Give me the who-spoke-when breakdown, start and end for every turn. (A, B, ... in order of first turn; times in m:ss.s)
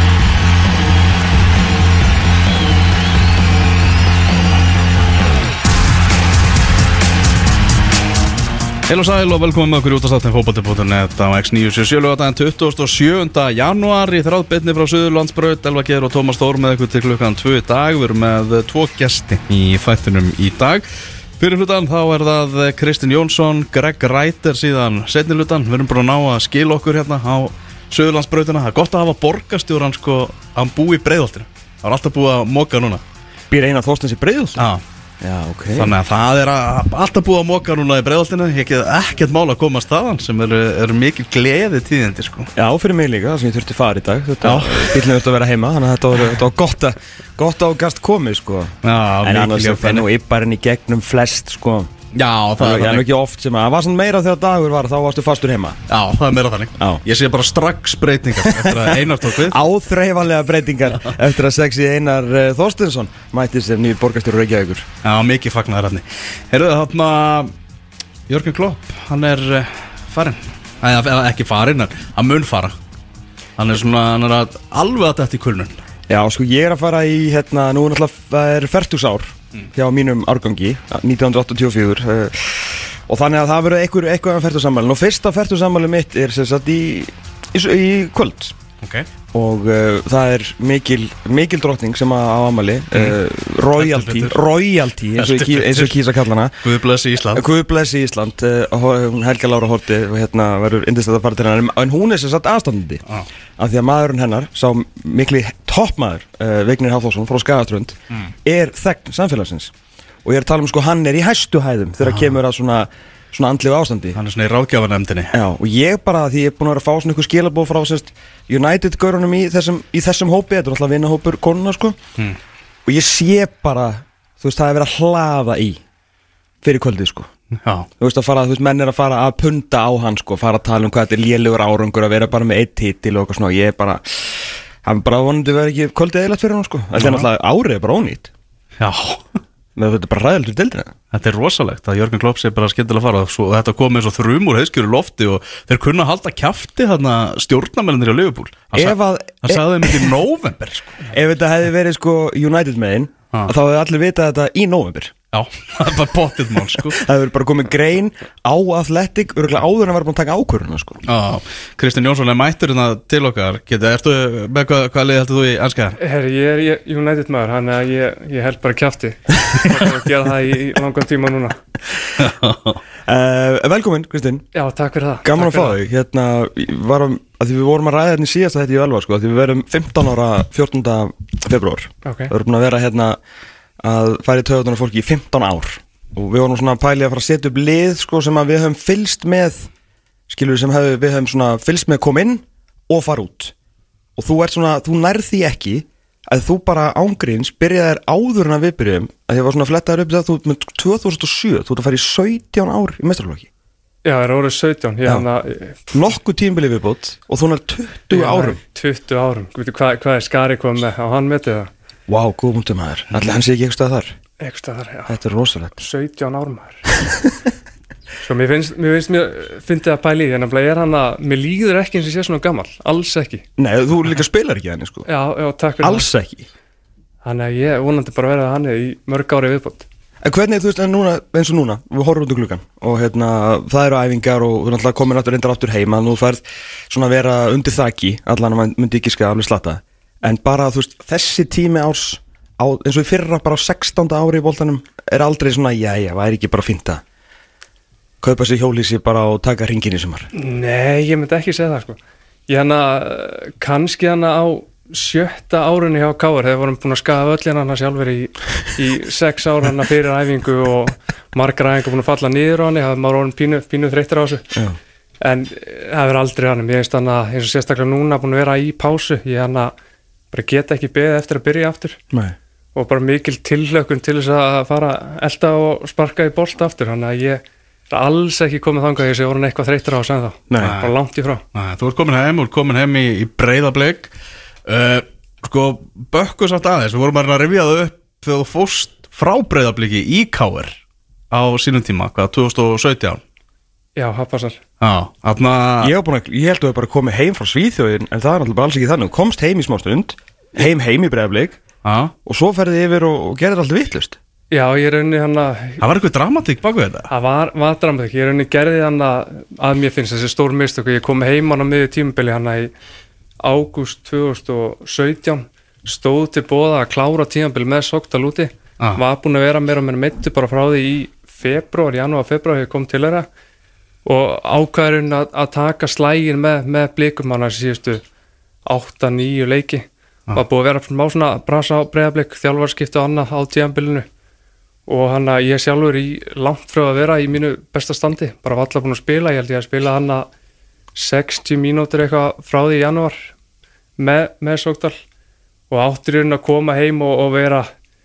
0:08.9-0:33.0 A
0:33.5-0:34.6 B
0:35.2-0:35.9 B
0:35.7-0:42.5 A
0:42.6-0:51.9 B
0:44.4-0:45.0 A
0:48.8-0:50.0 A
0:52.1-0:53.0 A
0:52.6-0:55.8 B
0:55.9-0:59.6 A
0:56.8-0:57.0 B
0:58.4-1:04.9 B
1:05.0-1:07.5 A
1:08.3-1:12.8 A
1:13.6-1:15.8 A
1:16.1-1:28.6 B
1:28.8-1:29.1 A
1:29.3-1:36.6 B
1:32.9-1:33.2 A
1:33.7-1:34.4 A
1:35.2-1:36.0 A
1:36.6-1:37.4 A
1:37.3-1:43.0 B
1:43.6-1:49.7 B
1:50.2-1:54.2 B
1:52.0-1:52.3 A
1:54.2-1:55.3 A
1:55.3-2:02.0 B
2:02.8-2:05.8 B
2:06.6-2:07.3 B
2:07.6-2:07.9 A
2:08.0-2:18.3 B
2:16.9-2:17.3 A
2:18.8-2:19.2 A
2:19.8-2:20.9 B
2:21.1-2:31.1 A
2:28.7-2:30.1 B
2:31.1-2:35.1 B
2:35.3-2:37.0 A
2:36.7-2:41.0 B
2:41.0-2:46.0 A
2:46.0-2:51.6 C
2:52.2-2:52.8 A
2:53.0-2:54.4 B
2:54.5-2:55.8 C
2:55.2-3:03.2 B
3:02.0-3:02.3 C
3:03.8-3:09.7 B
3:10.3-3:13.5 B
3:14.2-3:23.5 B
3:24.0-3:25.9 C
3:25.9-3:28.6 B
3:28.1-3:31.7 C
3:32.1-3:34.2 B
3:34.4-3:35.1 C
3:35.1-3:35.8 B
3:35.8-3:36.8 C
3:37.0-3:37.3 B
3:38.2-3:43.4 C
3:43.6-3:45.1 B
3:45.1-3:46.1 C
3:45.8-3:46.5 B
3:47.2-3:49.8 C
3:50.2-4:07.0 B
4:08.2-4:10.3 B
4:10.3-4:12.0 C
4:12.5-4:24.5 C
4:25.2-4:29.7 C
4:30.3-4:32.0 C
4:32.7-4:41.4 C
4:40.5-4:40.8 B
4:40.6-4:40.9 A
4:41.5-4:44.1 A
4:44.6-4:50.7 A
4:51.3-4:53.2 A
4:54.0-4:54.6 C
4:54.8-4:55.9 A
4:55.8-5:01.6 B
5:01.8-5:02.1 A
5:02.2-5:04.2 B
5:04.5-5:05.8 C
5:05.8-5:07.1 A
5:07.1-5:12.7 C
5:13.4-5:23.3 C
5:24.0-5:28.0 C
5:28.6-5:34.1 C
5:34.9-5:40.3 C
5:41.0-5:43.3 C
5:44.0-5:45.0 C
5:45.7-5:47.7 C